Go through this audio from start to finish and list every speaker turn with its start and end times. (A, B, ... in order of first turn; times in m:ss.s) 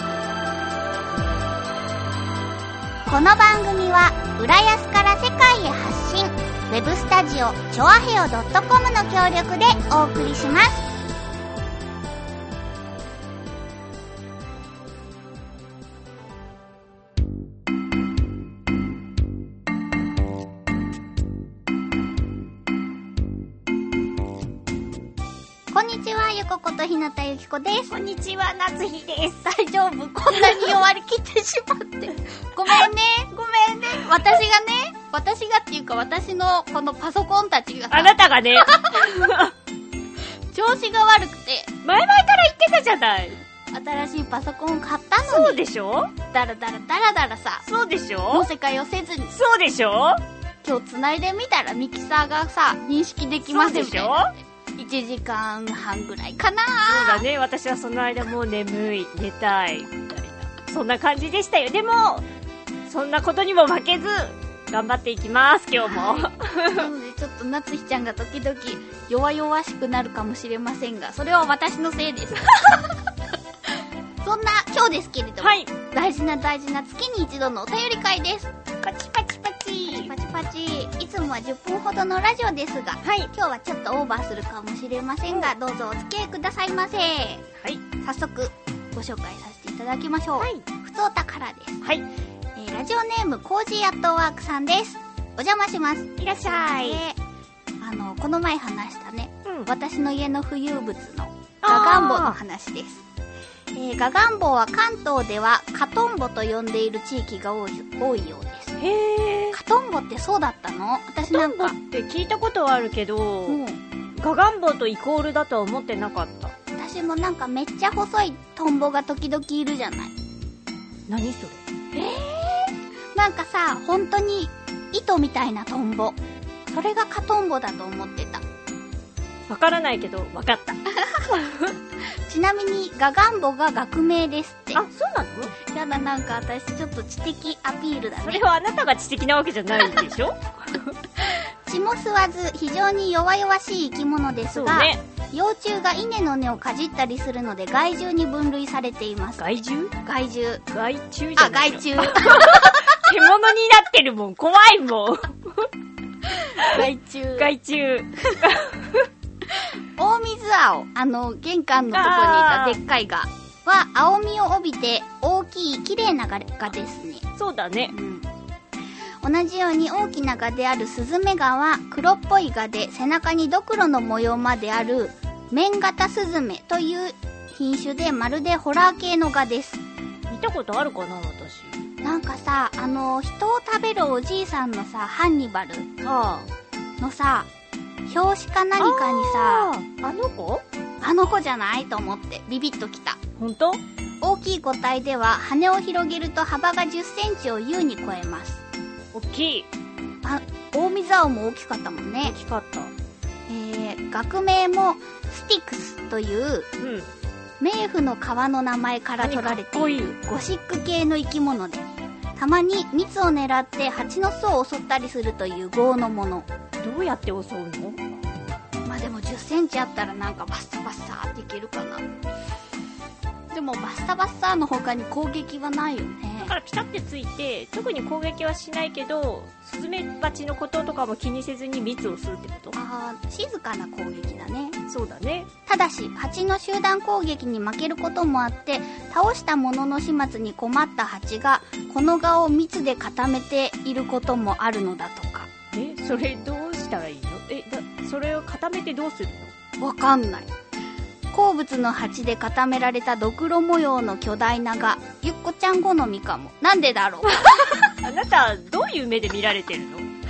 0:03.1-0:10.8 A
0:25.7-0:27.9 A
0:27.9-0:29.5 B
0:29.4-0:39.4 A
0:30.3-0:30.7 B
0:37.9-0:39.5 B
0:40.5-0:41.7 A
0:41.8-0:43.4 B
0:43.7-0:45.6 A
0:45.2-0:46.1 B
0:46.2-0:47.6 A
0:47.6-0:48.5 B
0:48.3-0:49.3 A
0:49.3-0:50.2 B
0:50.6-0:57.2 A
0:53.4-0:54.3 B
0:56.9-1:02.3 B
1:02.8-1:06.9 B
1:05.8-1:13.0 A
1:14.2-1:18.5 A
1:15.4-1:15.7 B
1:18.8-1:20.1 B
1:19.8-1:27.4 A
1:23.0-1:23.3 B
1:25.3-1:25.5 B
1:28.0-1:31.9 A
1:30.4-1:30.6 B
1:32.6-1:37.2 A
1:36.2-1:37.0 B
1:37.8-1:43.0 A
1:39.4-1:39.7 B
1:41.6-1:42.4 B
1:43.7-1:48.8 A
1:48.8-1:49.6 B
1:49.5-1:51.8 A
1:51.3-1:53.6 B
1:53.5-1:53.8 A
1:54.2-1:56.5 B
1:56.8-2:00.1 A
2:01.1-2:01.6 B
2:01.9-2:08.4 A
2:09.5-2:11.7 B
2:12.2-2:14.8 A
2:14.7-2:15.5 B
2:15.6-2:18.4 A
2:18.2-2:20.9 B
2:21.2-2:30.6 A
2:24.5-2:25.0 B
2:29.4-2:29.9 B
2:30.7-2:35.7 B
2:31.4-2:33.0 A
2:36.5-2:36.8 B
2:36.6-2:37.5 A
2:37.4-2:39.1 B
2:40.0-2:47.2 A
2:41.9-2:42.8 B
2:47.4-2:47.9 B
2:47.9-2:48.3 A
2:49.2-2:59.8 A
3:00.3-3:01.9 B
3:02.0-3:05.9 A
3:06.0-3:06.5 B
3:07.0-3:07.5 A
3:08.1-3:09.7 A
3:08.8-3:10.6 B
3:11.0-3:13.2 A
3:13.4-3:13.8 B
3:14.2-3:18.6 A
3:19.1-3:19.7 B
3:20.2-3:22.4 A
3:22.2-3:22.9 B
3:23.5-3:26.7 A
3:26.8-3:27.1 B
3:27.6-3:36.5 A
3:29.2-3:30.1 B
3:36.8-3:38.0 B
3:38.8-3:42.0 A
3:43.5-3:46.5 A
3:46.4-3:52.8 B
3:52.7-3:54.8 A
3:54.9-3:55.5 B
3:55.6-4:05.5 A
4:05.7-4:09.5 B
4:09.8-4:10.5 A
4:11.3-4:17.8 A
4:17.5-4:20.1 B